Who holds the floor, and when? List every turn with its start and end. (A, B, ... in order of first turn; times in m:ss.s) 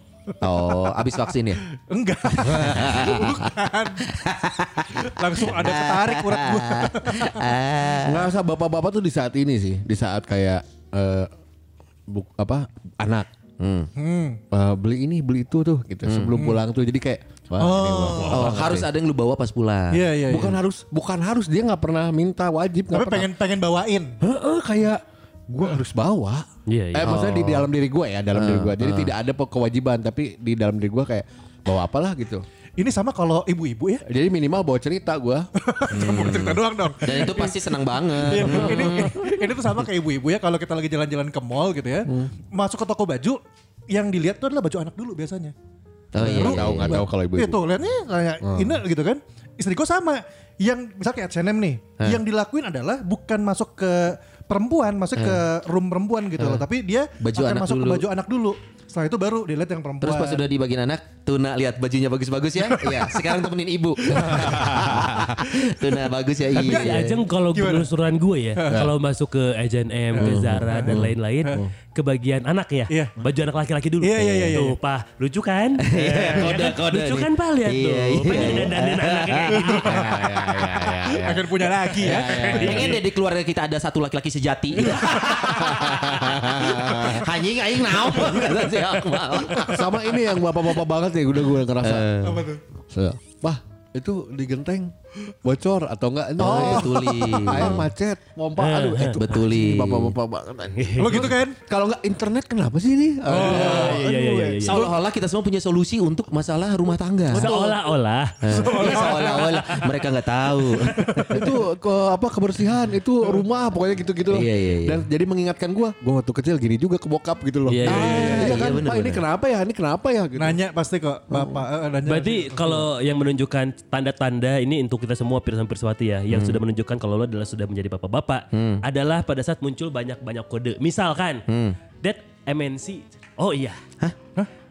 0:00.3-0:01.0 A
0:00.4-0:01.6 B
0:01.6-0:04.2 A
0:02.4-0:03.5 B
0:04.1-0:08.3 B
0:04.9-0:07.6 A
0:08.0-0:11.3 C
0:12.1-0:13.3 C
0:13.6-0:13.9 B
0:14.0-0:14.4 A
0:14.5-0:18.9 C
0:16.1-0:16.4 B
0:16.3-0:16.6 A
0:17.6-0:18.7 A
0:18.3-0:20.1 B
0:19.9-0:20.6 A
0:20.3-0:23.3 C
0:22.9-0:24.2 A
0:24.2-0:32.4 C
0:26.7-0:27.3 D
0:27.0-0:27.7 B
0:28.3-0:29.1 B
0:32.8-0:34.0 A
0:34.1-0:36.6 C
0:35.6-0:37.6 A
0:35.9-0:39.3 B
0:38.1-0:45.5 A
0:38.4-0:39.2 C
0:42.1-0:42.3 C
0:46.1-0:47.1 B
0:46.2-0:47.6 C
0:46.2-1:00.4 A
0:48.4-0:48.8 C
0:55.2-0:55.4 B
0:56.4-0:56.7 B
0:57.2-0:58.1 B
1:00.0-1:07.2 B
1:02.7-1:03.4 A
1:04.0-1:06.0 A
1:04.2-1:05.3 C
1:06.5-1:07.9 A
1:06.6-1:20.0 D
1:08.6-1:08.9 A
1:10.1-1:11.6 A
1:10.2-1:11.7 C
1:12.9-1:13.2 A
1:14.0-1:14.8 A
1:15.8-1:19.8 B
1:16.1-1:16.6 A
1:19.6-1:23.0 A
1:19.8-1:23.0 C
1:22.4-1:23.0 D
1:22.4-1:29.9 B
1:24.8-1:25.4 A
1:25.2-1:27.4 C
1:29.5-1:29.8 A
1:29.6-1:32.1 C
1:31.8-1:32.5 B
1:32.2-1:32.6 A
1:32.9-1:44.6 C
1:36.4-1:37.8 A
1:36.4-1:37.9 B
1:38.6-1:39.2 D
1:39.2-1:40.2 B
1:40.8-1:41.3 D
1:41.0-1:41.6 A
1:43.3-1:44.9 A
1:43.4-1:44.9 D
1:43.4-1:44.0 B
1:44.6-1:47.6 B
1:47.3-1:47.8 A
1:47.3-1:49.2 D
1:48.4-1:51.5 B
1:48.4-1:49.9 A
1:50.6-1:51.5 A
1:51.3-2:00.6 C
1:54.3-1:55.1 B
1:57.7-1:58.5 D
1:57.8-1:59.2 B
2:00.4-2:02.9 A
2:02.1-2:11.4 D
2:06.3-2:06.6 B
2:08.5-2:08.8 B
2:11.5-2:11.8 B
2:12.0-2:13.8 D